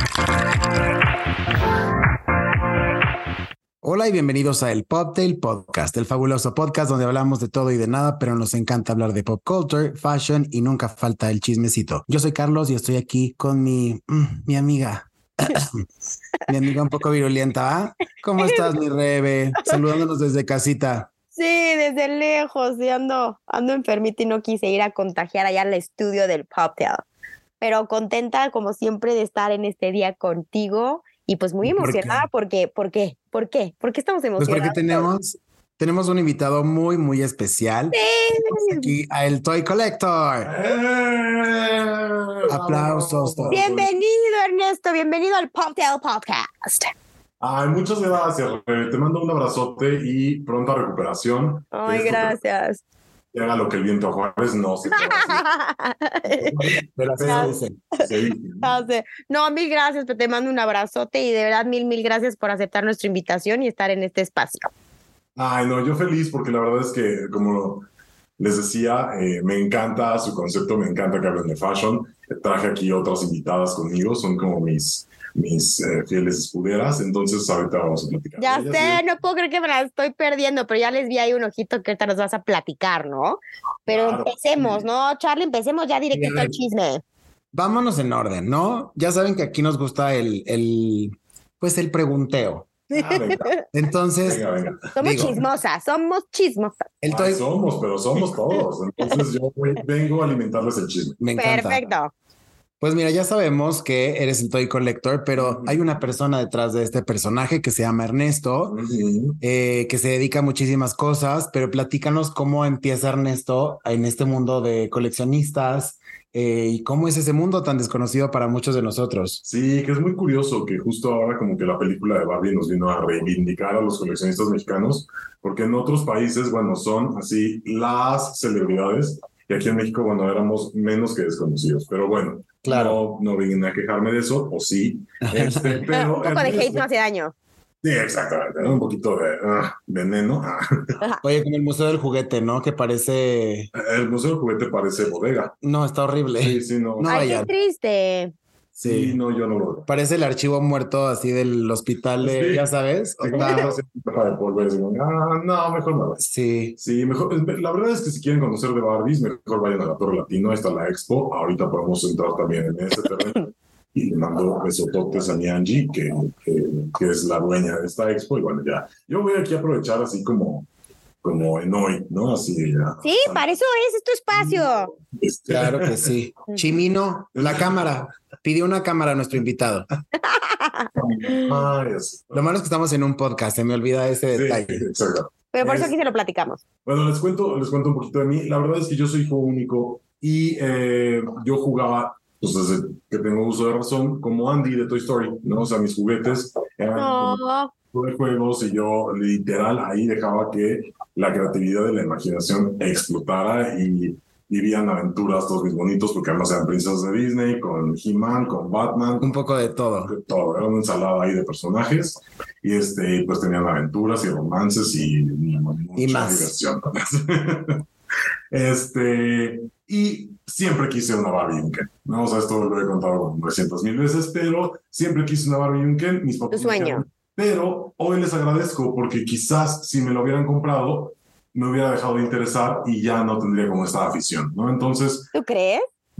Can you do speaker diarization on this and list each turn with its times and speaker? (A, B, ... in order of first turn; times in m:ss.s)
0:03.8-0:15.8 A
0:16.5-0:21.1 A
0:18.4-0:18.7 B
0:21.3-0:27.0 B
0:27.6-0:35.1 B
0:31.6-0:32.2 A
0:34.4-0:38.0 A
0:37.9-0:38.9 B
0:38.5-0:40.5 A
0:40.4-0:43.9 C
0:42.5-0:43.6 A
0:43.5-0:46.9 B
0:47.4-0:52.4 C
0:51.7-0:52.8 B
0:53.3-0:55.4 C
0:54.9-0:56.6 B
0:56.4-0:58.8 C
0:56.8-0:57.8 A
0:57.2-0:58.1 B
0:58.6-1:04.7 B
1:05.4-1:07.8 C
1:08.4-1:19.0 C
1:18.4-1:27.0 B
1:23.8-1:24.9 C
1:26.1-1:26.6 A
1:27.5-1:32.7 A
1:32.9-1:33.5 C
1:32.9-1:33.6 B
1:33.7-1:34.4 A
1:34.2-1:35.4 C
1:34.9-1:36.8 B
1:35.0-1:35.4 A
1:37.0-1:37.4 A
1:37.1-1:41.2 C
1:41.2-1:41.8 A
1:41.4-1:42.1 B
1:42.8-1:48.8 A
1:45.3-1:45.8 C
1:48.7-1:49.4 C
1:49.4-1:59.4 A
1:59.4-2:16.8 C
2:12.6-2:13.0 A
2:15.2-2:15.8 A
2:15.8-2:17.3 B
2:17.8-2:21.0 C
2:21.2-2:23.7 A
2:23.7-2:25.6 C
2:25.6-2:27.5 A
2:26.4-2:27.4 C
2:27.1-2:28.3 B
2:28.8-2:29.9 C
2:28.8-2:29.2 A
2:29.9-2:33.7 A
2:32.2-2:32.7 C
2:33.2-2:36.2 C
2:33.4-2:33.6 B
2:36.2-2:36.8 A
2:36.8-2:50.7 C
2:51.2-2:53.4 C
2:53.0-2:54.9 B
2:54.3-2:56.1 C
2:55.5-2:59.9 A
2:57.3-2:58.0 C
3:00.2-3:01.6 B
3:01.0-3:02.5 C
3:02.3-3:04.8 A
3:04.3-3:05.9 C
3:05.5-3:06.6 B
3:06.8-3:17.4 C
3:16.9-3:17.7 B
3:17.9-3:29.4 C
3:29.2-3:30.2 A
3:30.0-3:37.8 C
3:36.0-3:36.5 A
3:38.5-3:55.3 C
3:46.5-3:47.0 B
3:55.3-3:55.8 B